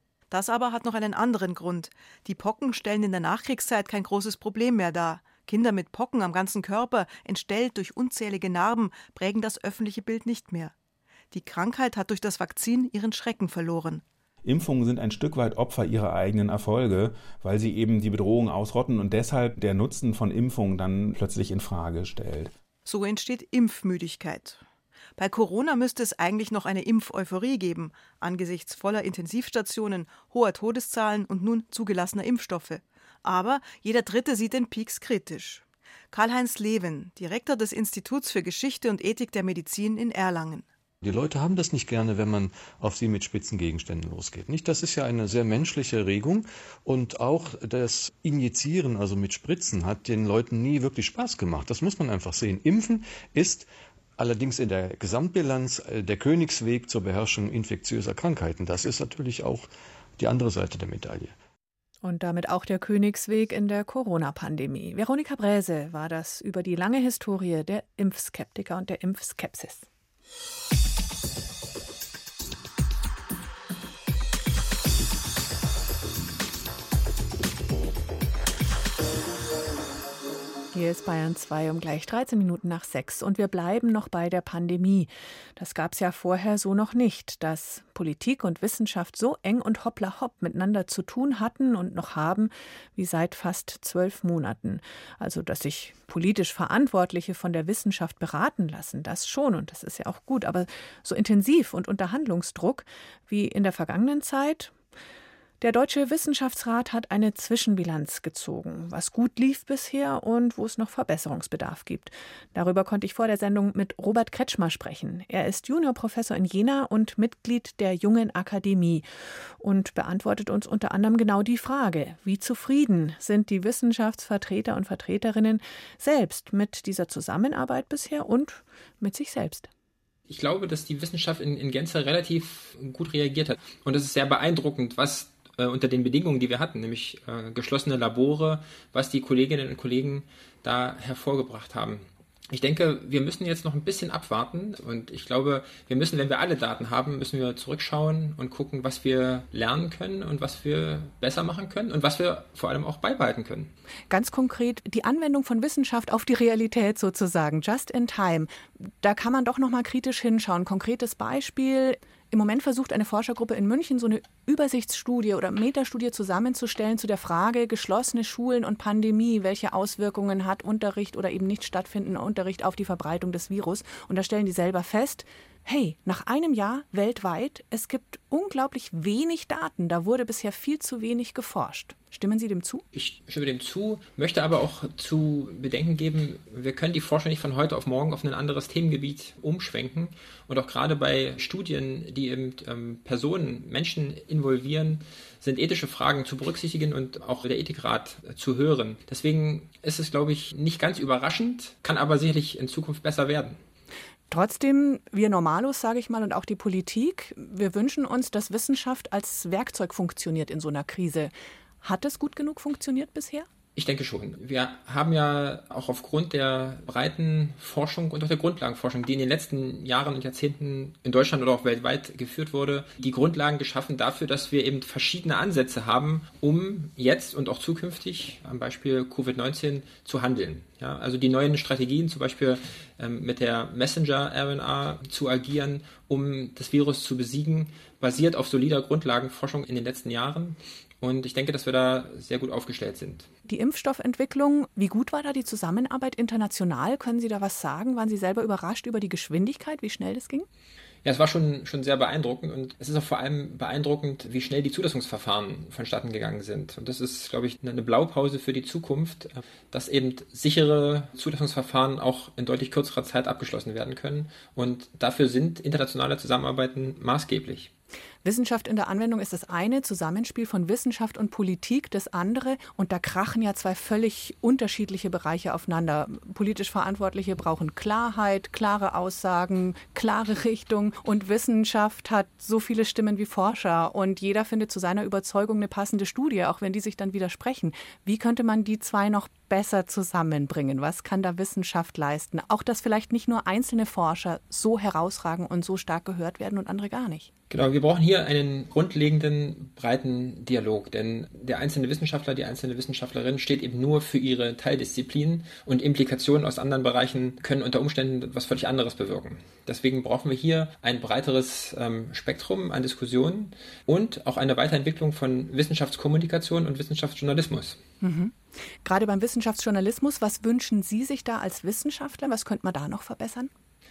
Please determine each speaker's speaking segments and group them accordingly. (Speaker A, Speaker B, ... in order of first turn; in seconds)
Speaker A: 0.3-10.7, 11.3-14.0, 22.9-24.6, 25.2-40.7
Speaker B: 14.4-22.5
Speaker C: 41.0-61.3
Speaker D: 62.0-69.9, 80.7-104.7, 105.6-119.0, 119.6-129.7, 154.1-182.8, 204.3-213.5, 243.5-250.5, 268.2-297.3, 318.0-323.5
Speaker E: 130.3-153.7, 182.9-203.6, 213.8-243.3, 251.0-267.7, 297.5-317.8